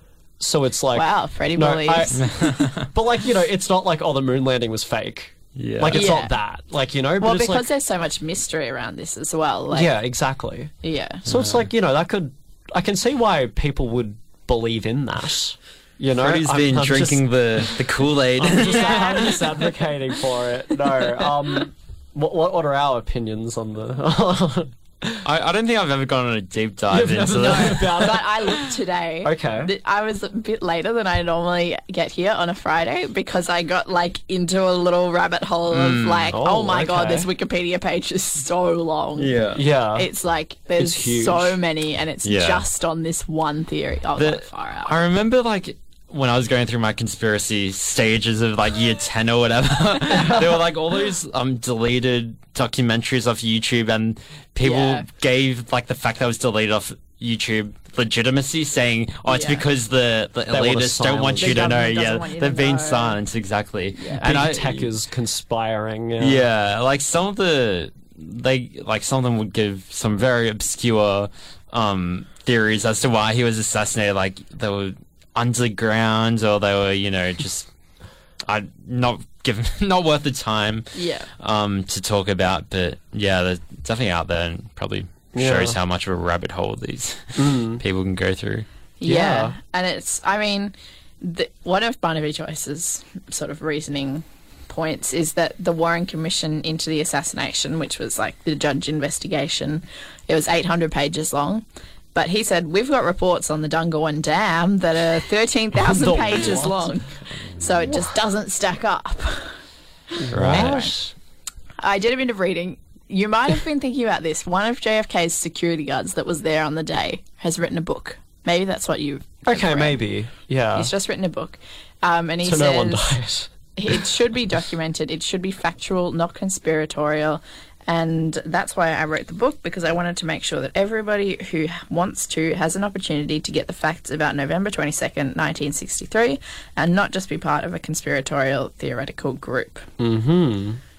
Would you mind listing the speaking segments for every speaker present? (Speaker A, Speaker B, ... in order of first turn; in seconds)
Speaker A: 0.4-2.2, 2.8-7.7, 9.7-10.7, 11.2-25.2, 26.9-28.7, 29.2-29.7, 36.3-37.3, 39.2-40.1, 40.8-41.6, 60.5-61.8, 64.2-66.5, 85.3-85.8, 87.3-87.8, 89.0-89.6, 105.8-106.8, 110.2-111.1, 119.5-120.9, 122.4-124.0, 140.0-140.8
Speaker B: 0.9-2.5, 5.9-6.3, 7.2-9.9, 10.8-11.2, 18.5-19.4, 27.4-39.4, 39.9-44.9, 54.6-55.0, 59.3-59.6, 61.4-63.2, 64.0-64.2, 80.9-81.3, 89.0-109.5, 110.4-110.9, 111.8-120.0, 120.7-123.2, 123.7-139.9
Speaker C: 2.2-2.9, 5.5-6.1, 11.3-11.6, 16.1-19.2, 25.2-28.1, 35.7-36.4, 42.2-42.6, 44.2-64.9, 66.2-77.7, 78.5-80.9, 81.4-88.7, 110.3-110.8